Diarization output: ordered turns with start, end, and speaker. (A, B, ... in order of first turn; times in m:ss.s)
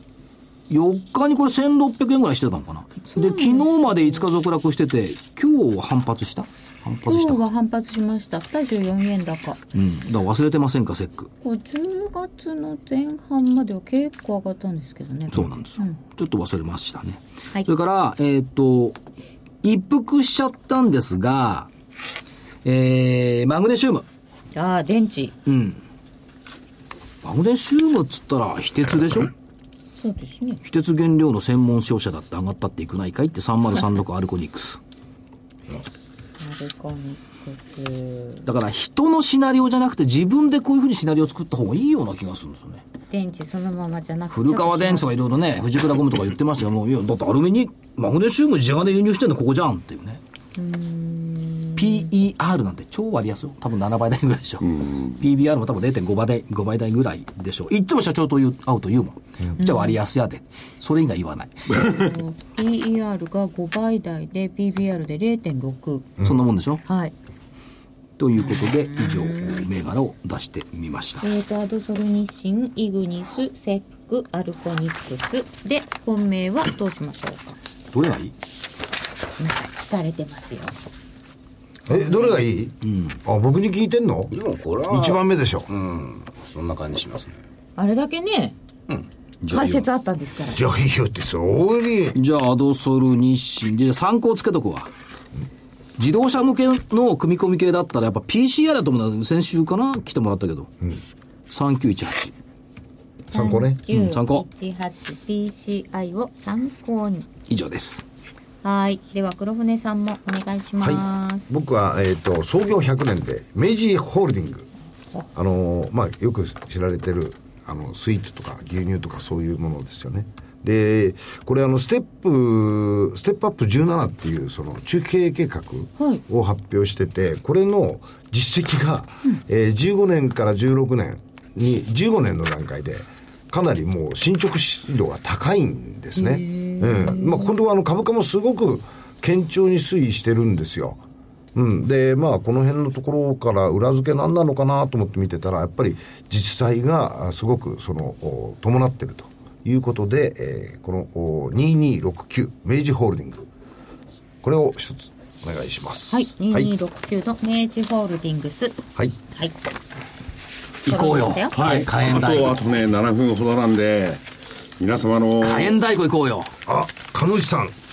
0:00.7-0:07.4 A
0:03.1-0:04.2 B
0:07.0-0:09.6 B
0:09.7-0:11.3 A
0:11.4-0:16.0 B
0:15.3-0:19.0 A
0:19.6-0:21.7 A
0:22.6-0:24.0 A
0:24.5-0:25.4 B
0:25.4-0:25.8 A
0:27.2-0:29.3 A
0:30.0-0:30.6 B
0:30.6-0:34.8 A
0:36.4-0:38.4 B
0:38.4-0:42.8 A
0:43.1-0:45.2 B
0:44.3-0:50.2 A
0:50.6-0:52.1 B
0:51.8-1:01.8 A
0:59.6-1:00.0 B
1:01.7-1:02.1 C
1:01.8-1:06.2 B
1:06.2-1:06.8 A
1:06.8-1:07.1 B
1:08.2-1:11.2 A
1:08.4-1:09.6 B
1:11.2-1:17.6 B
1:17.9-1:18.3 A
1:19.4-1:20.8 B
1:21.9-1:24.3 D
1:21.9-1:22.4 B
1:22.8-1:23.2 A
1:24.3-1:27.4 E
1:24.9-1:25.7 D
1:27.8-1:28.6 B
1:29.4-1:29.8 A
1:29.5-1:30.6 B
1:30.5-1:32.2 D
1:32.1-1:34.9 A
1:36.0-1:40.7 A
1:41.5-1:42.3 A
1:43.3-1:47.3 B
1:43.3-1:43.8 D
1:43.9-1:44.4 A
1:47.5-1:48.0 A
1:48.6-1:51.5 B
1:50.8-1:54.7 D
1:55.3-2:21.0 D
2:16.2-2:17.5 B
2:21.5-2:33.5 D
2:34.4-2:36.7 D
2:36.1-2:39.6 B
2:40.8-2:42.6 A
2:40.9-2:41.5 B
2:41.5-2:44.2 C
2:44.8-2:45.8 C
2:45.4-2:46.5 A
2:46.6-2:47.7 D